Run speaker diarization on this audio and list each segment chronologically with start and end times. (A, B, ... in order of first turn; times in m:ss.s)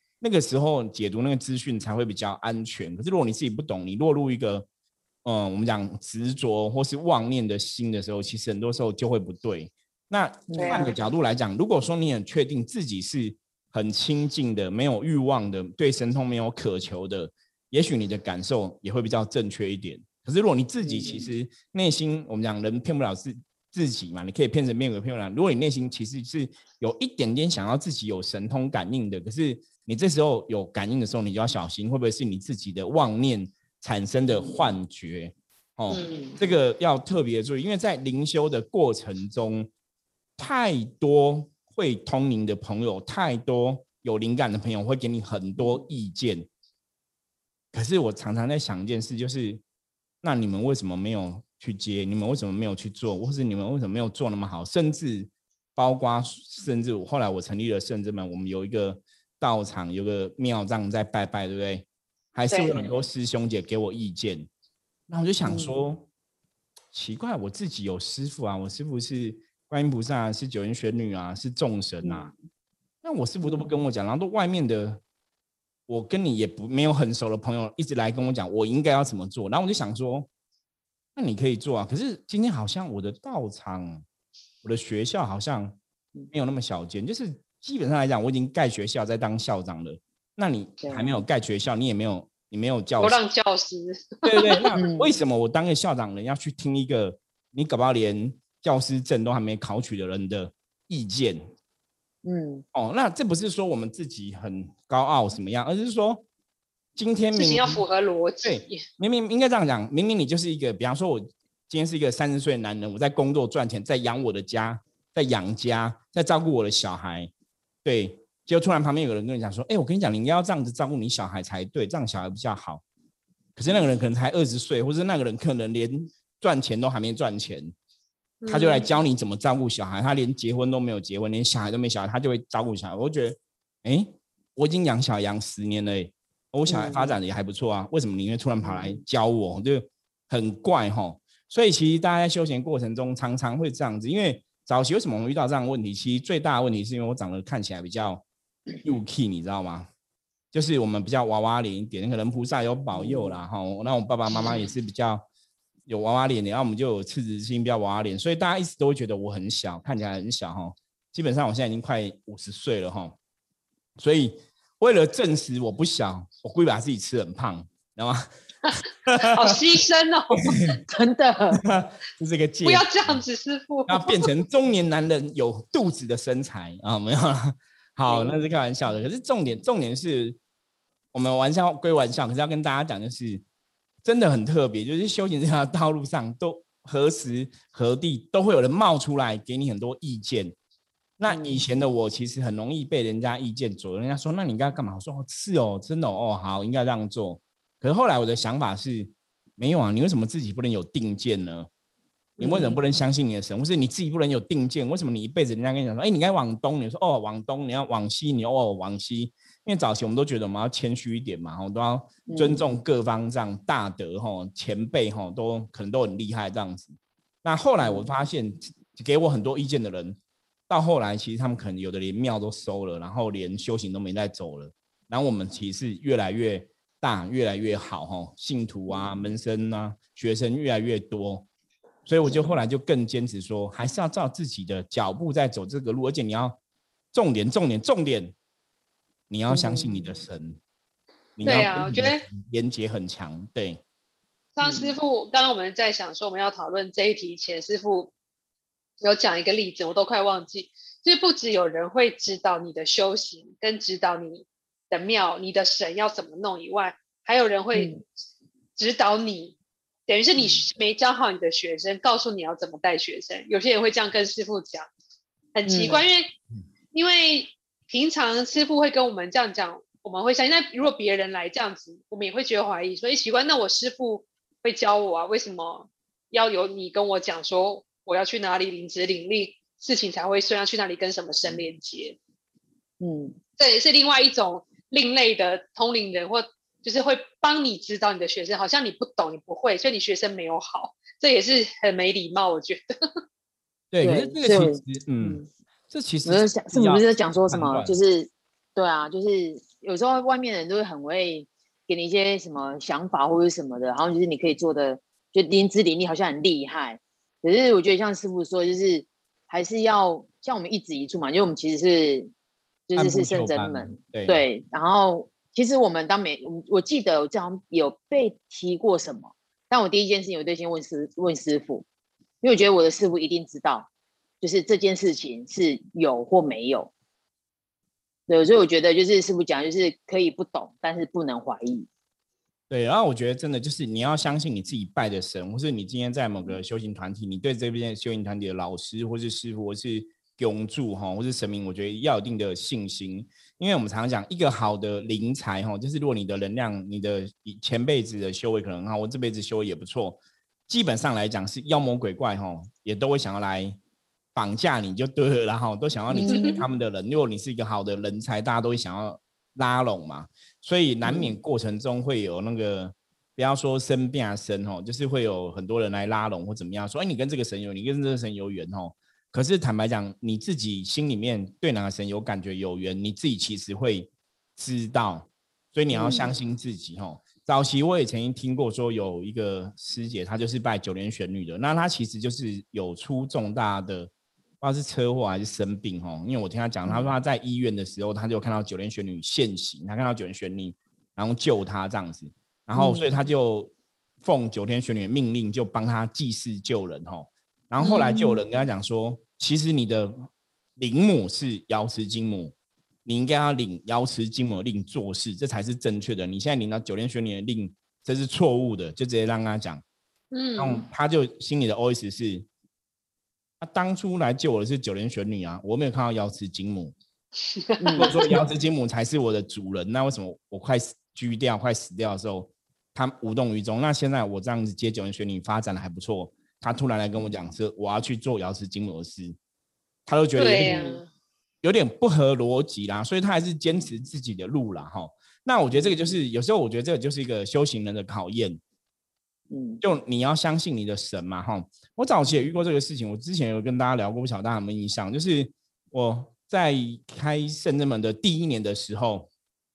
0:00.2-0:04.6 A
0:05.2-0:39.7 A
0:10.5-0:10.9 B
0:10.5-0:10.9 C
0:20.8-0:21.3 B
0:35.9-0:36.4 C
0:40.4-0:46.5 A
0:47.7-0:49.6 A
0:50.2-1:04.5 A
1:02.5-1:02.8 C
1:05.1-1:06.1 A
1:05.4-1:05.7 B
1:06.9-1:12.3 A
1:12.0-1:12.3 B
1:13.0-1:15.0 A
1:13.4-1:13.7 B
1:15.9-1:20.3 A
1:21.2-1:24.0 A
1:24.6-1:25.8 A
1:26.3-1:33.2 A
1:30.8-1:31.1 B
1:33.0-1:34.7 C
1:34.2-1:41.5 A
1:34.7-1:35.1 B
1:42.2-1:42.6 B
1:42.7-1:46.2 A
1:47.0-1:47.8 A
1:47.3-1:48.8 C
1:48.4-1:57.3 A
1:57.8-2:02.8 A
2:03.6-2:07.7 A
2:08.4-2:08.9 C
2:08.5-2:28.2 A
2:16.7-2:17.2 B
2:18.6-2:19.0 B
2:28.8-2:29.9 A
2:30.5-2:35.3 A
2:32.9-2:33.4 B
2:35.9-2:43.2 A
2:44.0-2:48.3 A
2:48.6-2:50.7 C
2:49.0-2:49.6 A
2:50.9-2:51.6 B
2:51.6-2:53.2 A
2:52.6-2:54.2 C
2:53.9-3:00.4 A
3:01.1-3:03.4 A
3:04.0-3:10.5 A
3:11.2-3:21.7 A
3:11.3-3:11.6 B
3:22.4-3:51.5 A
3:22.4-3:22.8 B
3:32.3-3:32.6 B
3:37.8-3:38.1 B
3:48.9-3:49.3 B
3:52.0-3:56.6 A
3:57.1-3:58.3 A
3:59.3-4:00.6 A
3:59.5-4:00.1 B
4:01.4-4:03.8 A
4:01.4-4:02.2 C
4:04.6-4:08.1 C
4:04.6-4:05.0 B
4:09.0-4:17.9 C
4:17.7-4:18.0 B
4:18.8-4:24.9 C
4:20.4-4:20.6 B
4:25.5-4:26.3 C
4:25.6-4:26.0 B
4:26.9-4:42.2 C
4:43.0-4:43.4 B
4:43.6-4:52.8 C
4:53.9-4:57.9 A
4:54.0-4:55.5 B
4:56.2-5:12.3 B
5:12.9-5:21.8 B
5:12.9-5:14.4 A
5:22.4-5:23.9 B
5:24.4-5:26.9 B
5:28.3-5:31.9 B
5:32.7-5:53.8 A
5:54.3-6:42.5 A
5:56.1-5:56.6 B
5:56.2-5:56.5 C
6:01.0-6:01.4 B
6:15.9-6:16.4 B
6:26.8-6:27.1 B
6:32.7-6:33.1 B
6:37.8-6:38.4 B
6:43.0-6:49.8 A
6:50.3-6:50.8 C
6:50.6-6:52.5 A
6:53.6-6:56.9 A
6:57.5-6:58.2 C
6:57.8-6:58.3 B
6:58.0-7:09.4 A
7:10.0-7:10.8 A
7:10.4-7:11.1 C
7:10.6-7:11.0 B
7:11.6-7:18.6 A
7:15.7-7:16.2 B
7:19.5-7:19.8 B
7:19.8-7:29.3 A